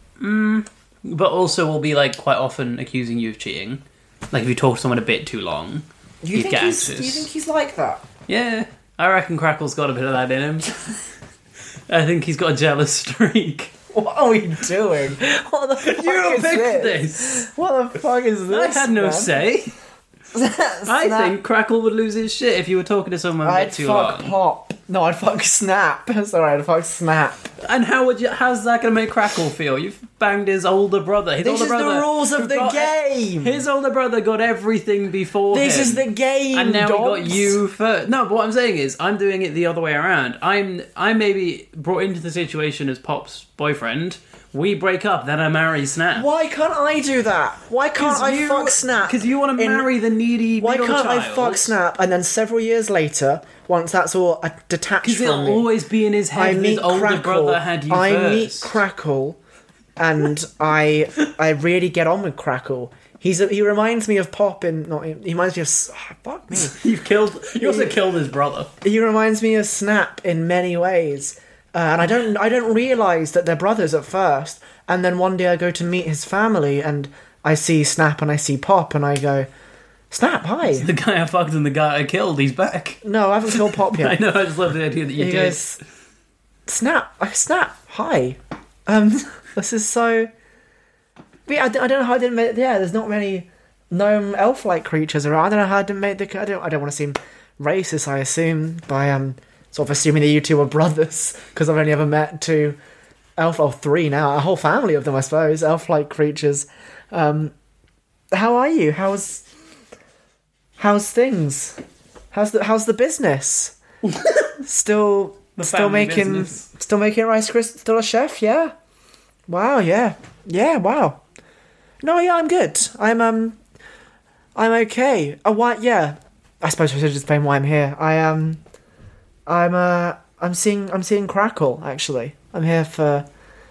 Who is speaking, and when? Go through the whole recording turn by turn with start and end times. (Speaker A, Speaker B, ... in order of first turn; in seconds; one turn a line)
Speaker A: 0.2-7.3
Speaker B: 6.2-8.0
Speaker A: 8.3-10.8
Speaker A: 11.9-13.7
Speaker B: 13.9-19.4
Speaker A: 15.8-17.5
Speaker A: 18.5-19.7
Speaker B: 20.3-21.3
Speaker A: 20.9-24.3
Speaker B: 23.4-27.5
Speaker A: 27.6-46.3
Speaker B: 31.4-33.6
Speaker B: 35.5-37.6
Speaker B: 46.1-49.9
Speaker A: 48.0-51.8
Speaker B: 50.6-55.7
Speaker A: 55.0-58.8
Speaker B: 56.3-59.4
Speaker B: 60.0-66.8
Speaker A: 66.5-68.7
Speaker B: 67.5-68.0
Speaker B: 68.8-79.5
Speaker B: 80.1-80.9
Speaker A: 80.6-83.0
Speaker B: 83.0-84.2
Speaker A: 83.5-85.7
Speaker B: 85.2-85.8
Speaker B: 86.7-90.3
Speaker B: 91.5-102.8
Speaker B: 103.4-107.5
Speaker B: 108.3-109.4
Speaker B: 110.8-111.8
Speaker B: 112.3-113.8
Speaker B: 114.6-118.7
Speaker A: 115.6-116.7
Speaker B: 119.5-121.2
Speaker B: 122.0-123.6
Speaker B: 124.5-128.6
Speaker B: 129.5-133.2